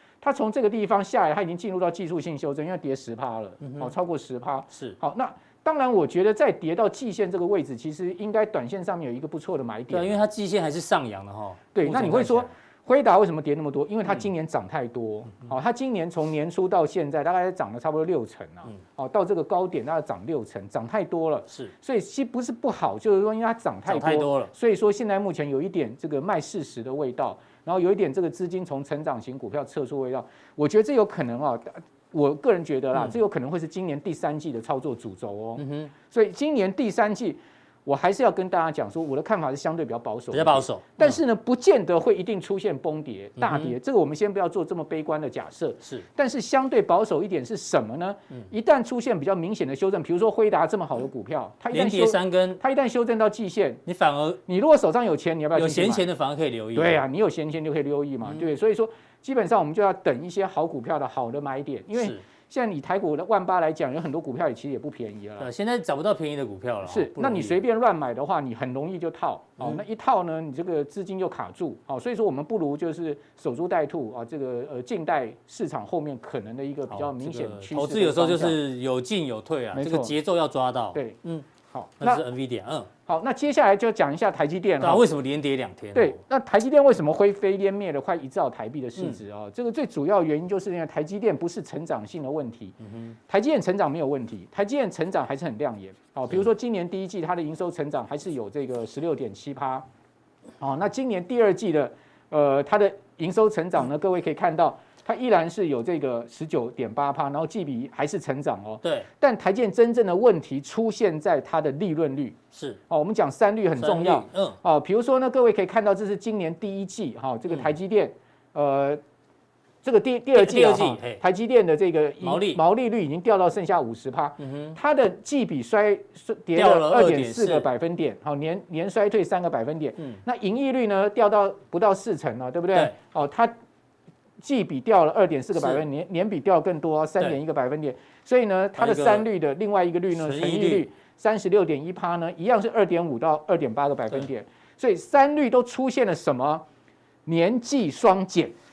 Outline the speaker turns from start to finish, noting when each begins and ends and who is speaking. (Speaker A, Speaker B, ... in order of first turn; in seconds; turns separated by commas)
Speaker A: 0.2-10.2, Speaker B: 3.6-3.9, Speaker B: 4.7-5.0, Speaker B: 9.9-12.5, Speaker A: 11.7-53.8, Speaker B: 23.9-24.5, Speaker B: 35.6-35.9, Speaker B: 40.3-41.2, Speaker B: 43.4-43.8, Speaker B: 51.7-52.6, Speaker B: 53.9-54.4, Speaker A: 54.5-56.1, Speaker B: 55.6-57.0, Speaker A: 56.8-65.5, Speaker B: 65.4-67.6, Speaker A: 66.9-78.6, Speaker B: 76.9-81.5, Speaker A: 79.8-80.1, Speaker A: 80.9-82.2, Speaker B: 82.0-82.9, Speaker A: 83.1-85.1, Speaker B: 84.8-86.2, Speaker A: 85.9-92.8, Speaker B: 92.8-93.2, Speaker A: 93.3-99.8, Speaker A: 100.6-112.4, Speaker B: 108.8-109.1, Speaker B: 112.5-112.8, Speaker A: 112.9-119.0, Speaker B: 113.8-114.6, Speaker A: 119.8-133.5, Speaker B: 120.3-121.2, Speaker B: 122.2-122.6, Speaker B: 124.4-124.8, Speaker B: 126.5-127.7, Speaker A: 134.4-146.7, Speaker B: 138.8-139.3, Speaker B: 140.1-140.9, Speaker A: 147.3-148.5